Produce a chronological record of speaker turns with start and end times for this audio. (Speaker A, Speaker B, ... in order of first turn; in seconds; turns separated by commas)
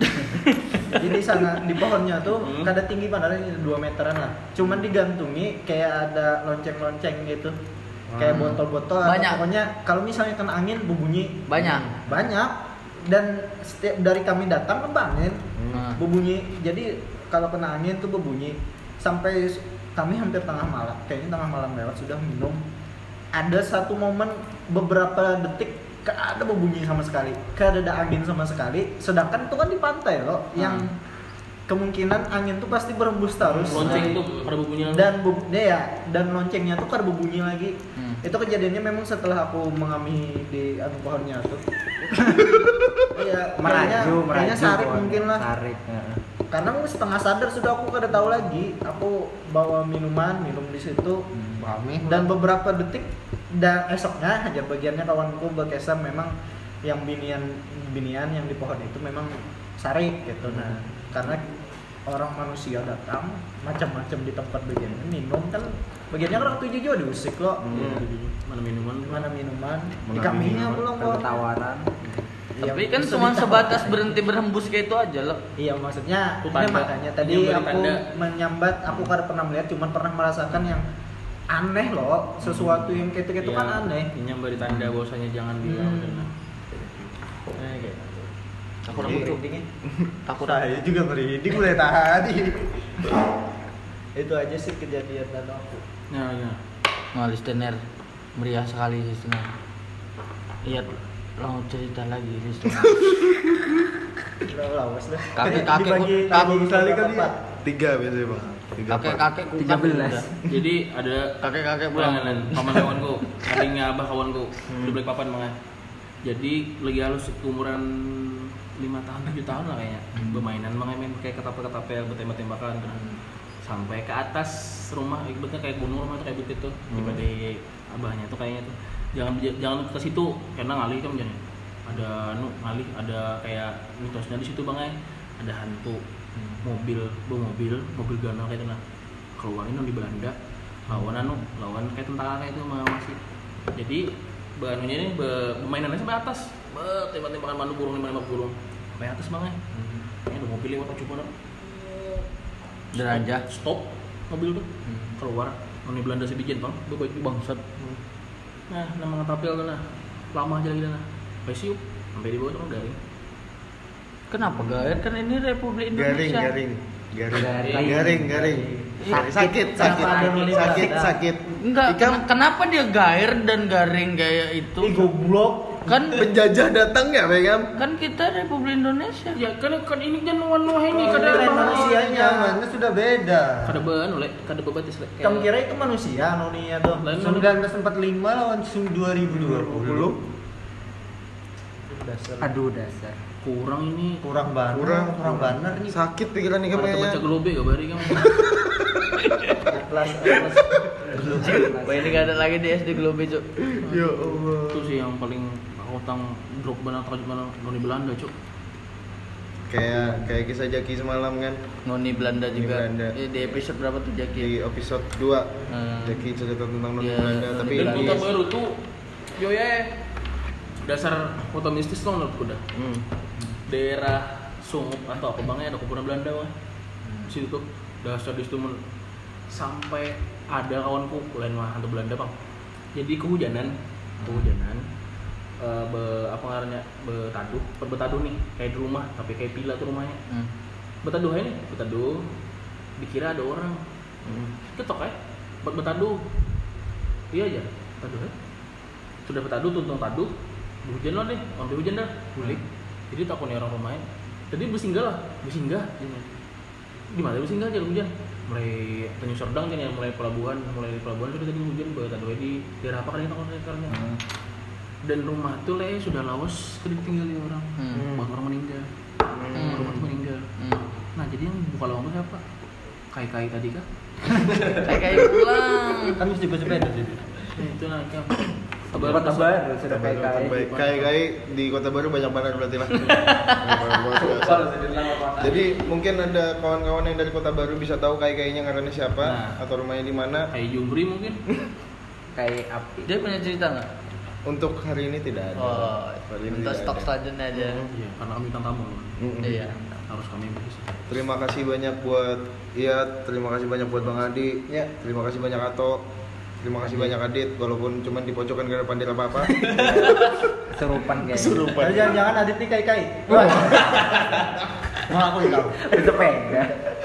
Speaker A: 0.3-0.9, Speaker B: 0.8-7.6, Speaker C: 2.4-2.7, Speaker B: 8.2-15.4, Speaker A: 8.2-9.4, Speaker A: 11.5-11.9, Speaker D: 11.6-11.9, Speaker D: 15.6-15.8, Speaker A: 15.7-16.0, Speaker B: 16.0-22.6, Speaker B: 23.3-30.9, Speaker A: 30.6-30.9, Speaker B: 31.7-34.2, Speaker C: 33.7-35.1, Speaker B: 34.9-41.6, Speaker A: 38.0-38.2, Speaker D: 42.5-43.0, Speaker B: 43.1-45.5, Speaker E: 43.6-46.2, Speaker B: 46.5-51.2, Speaker D: 51.6-52.3, Speaker F: 51.7-51.9, Speaker B: 52.1-56.3, Speaker B: 56.9-61.5, Speaker B: 62.1-68.0, Speaker D: 67.6-68.1, Speaker C: 67.7-69.3, Speaker B: 69.0-71.3, Speaker D: 70.1-70.9, Speaker E: 70.9-72.1, Speaker B: 72.6-74.2, Speaker A: 72.6-75.4, Speaker B: 75.6-80.9, Speaker C: 76.5-78.0, Speaker B: 81.5-84.1, Speaker C: 83.4-86.3, Speaker B: 85.8-86.0, Speaker B: 87.5-88.3, Speaker A: 88.9-89.4, Speaker B: 88.9-89.7, Speaker D: 88.9-89.3, Speaker A: 90.3-90.6, Speaker F: 90.3-92.7, Speaker B: 94.2-95.8, Speaker C: 96.1-96.6, Speaker A: 97.2-97.8, Speaker A: 98.4-99.5, Speaker A: 100.6-103.2, Speaker B: 104.5-107.3, Speaker A: 105.3-106.5, Speaker F: 106.4-107.3, Speaker D: 107.6-109.3, Speaker A: 108.9-110.3, Speaker E: 109.5-110.4, Speaker C: 110.5-111.4, Speaker A: 111.4-112.9, Speaker C: 111.9-115.5, Speaker D: 114.7-115.0, Speaker C: 116.2-136.0, Speaker E: 120.2-120.5, Speaker D: 126.9-127.2, Speaker C: 136.6-138.8, Speaker C: 139.4-140.4, Speaker C: 140.9-143.2, Speaker C: 143.8-149.6, Speaker C: 150.3-152.2, Speaker A: 152.9-153.4, Speaker C: 152.9-157.6, Speaker C: 158.7-159.8, Speaker C: 160.3-163.0, Speaker A: 164.3-166.5, Speaker D: 164.4-165.0, Speaker D: 165.9-172.3, Speaker E: 167.3-170.7, Speaker C: 167.6-168.1, Speaker A: 169.0-170.8, Speaker B: 169.8-171.2, Speaker A: 171.6-175.1, Speaker B: 174.8-176.1, Speaker A: 175.9-176.2, Speaker D: 176.1-177.7, Speaker A: 177.8-179.4, Speaker C: 179.3-182.0, Speaker B: 180.9-182.6, Speaker F: 181.0-183.8, Speaker C: 183.7-185.5, Speaker B: 185.2-187.2, Speaker C: 187.0-187.5, Speaker F: 187.2-190.1, Speaker D: 189.4-190.2, Speaker B: 189.4-189.8, Speaker B: 191.9-192.5, Speaker E: 192.4-193.2, Speaker C: 193.4-194.2, Speaker F: 194.2-196.0, Speaker D: 194.7-197.2, Speaker C: 196.7-198.5, Speaker D: 198.4-198.8, Speaker B: 199.6-201.5, Speaker E: 201.0-202.3, Speaker A: 201.2-203.5, Speaker D: 203.6-205.0, Speaker C: 203.8-208.3, Speaker D: 209.7-211.6, Speaker A: 211.9-214.5, Speaker D: 212.2-213.2, Speaker D: 214.4-215.5, Speaker A: 215.7-216.2, Speaker D: 216.0-218.2, Speaker A: 217.0-218.2, Speaker C: 217.7-218.8, Speaker C: 219.4-219.9, Speaker C: 220.8-222.6, Speaker D: 222.7-223.0, Speaker C: 223.7-226.5, Speaker C: 227.3-228.8, Speaker C: 229.5-232.3, Speaker C: 232.9-234.8, Speaker C: 235.6-240.2, Speaker C: 241.0-242.3, Speaker C: 243.0-243.8, Speaker D: 244.3-244.5, Speaker C: 244.7-246.2, Speaker C: 247.3-248.3, Speaker C: 249.3-250.3, Speaker C: 250.8-256.3, Speaker C: 257.1-264.1, Speaker E: 263.9-264.2, Speaker C: 265.1-268.9, Speaker A: 267.8-268.1, Speaker D: 267.9-268.3, Speaker D: 269.3-270.1, Speaker A: 269.6-270.0, Speaker C: 269.6-270.5, Speaker A: 270.6-270.8, Speaker C: 271.2-272.4, Speaker C: 273.1-273.9, Speaker A: 274.8-276.2, Speaker F: 276.2-277.2, Speaker C: 277.5-279.6, Speaker D: 279.0-279.2, Speaker E: 279.0-280.7, Speaker D: 279.9-284.7, Speaker C: 280.5-281.1, Speaker A: 283.3-284.2, Speaker C: 285.1-285.4, Speaker D: 285.4-290.5, Speaker C: 289.2-289.6, Speaker C: 290.5-291.4, Speaker E: 292.4-293.1, Speaker A: 293.1-293.9, Speaker D: 294.5-297.9, Speaker A: 295.6-297.8, Speaker C: 297.9-299.2, Speaker D: 299.2-299.6, Speaker A: 299.4-299.8, Speaker E: 299.8-300.0, Speaker C: 300.1-301.0, Speaker D: 301.1-306.0, Speaker D: 306.6-310.3, Speaker A: 309.7-310.1, Speaker E: 310.7-311.8, Speaker D: 311.3-312.2, Speaker B: 311.7-314.0, Speaker D: 313.3-314.4, Speaker F: 315.1-315.9, Speaker E: 315.9-316.8